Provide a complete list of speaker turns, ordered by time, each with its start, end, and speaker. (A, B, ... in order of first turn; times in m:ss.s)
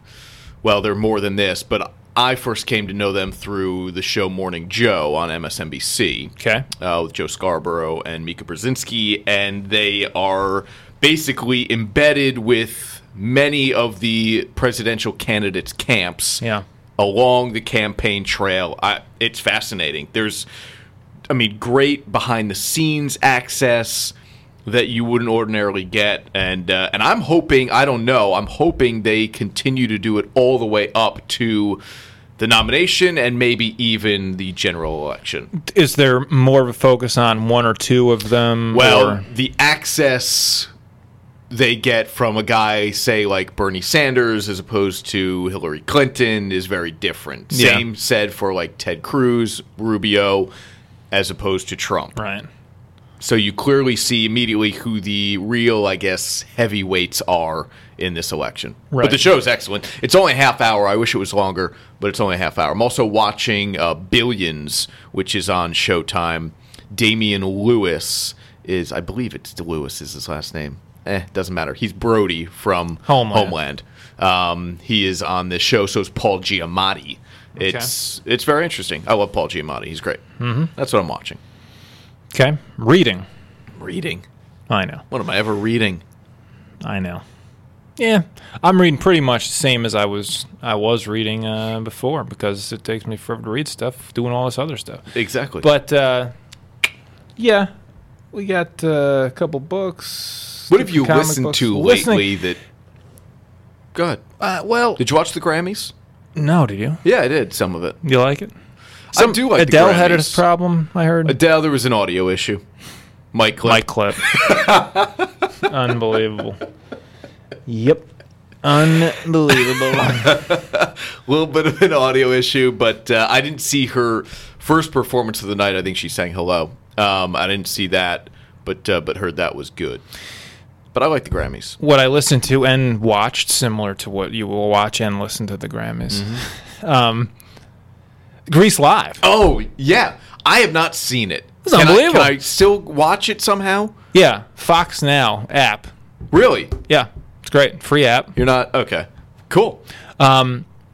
0:00.6-0:16.4 A
0:06.4-0:06.6 B
0:17.0-0:20.4 A
0:21.3-0:24.1 A
0:24.6-0:31.8 A
0:32.4-0:35.5 A
0:35.5-0:39.2 B
0:38.7-0:40.7 A
0:41.5-0:50.5 A
0:47.5-0:47.8 B
0:51.1-0:52.2 A
0:52.2-0:52.5 B
0:53.2-1:20.2 A
0:58.9-0:59.2 B
1:13.1-1:13.6 B
1:17.6-1:17.9 B
1:20.4-1:20.7 B
1:20.7-1:21.4 A
1:22.3-1:23.2 B
1:23.8-1:24.2 A
1:24.7-1:25.0 B
1:25.1-1:26.0 A
1:26.8-1:27.2 B
1:28.0-1:35.0 B
1:35.1-1:35.7 A
1:35.6-1:36.3 B
1:37.4-1:37.7 B
1:38.3-1:42.3 B
1:40.7-1:42.6 A
1:43.9-1:44.2 A
1:44.4-1:45.0 B
1:45.0-1:45.9 A
1:46.4-1:47.0 B
1:47.0-1:48.0 A
1:48.0-1:48.5 B
1:49.1-1:50.4 A
1:49.1-1:51.4 B
1:51.2-1:52.6 A
1:53.3-1:55.2 A
1:53.6-1:54.6 B
1:55.6-1:56.6 B
1:57.7-1:58.1 B
1:58.6-2:00.4 B
1:59.8-2:10.0 A
2:10.9-2:11.8 A
2:11.8-2:17.3 B
2:16.1-2:16.4 A
2:18.5-2:19.2 B
2:19.2-2:23.9 A
2:21.6-2:22.3 B
2:24.1-2:25.9 B
2:26.3-2:26.8 A
2:26.9-2:28.4 B
2:28.3-2:29.8 A
2:30.2-2:30.6 B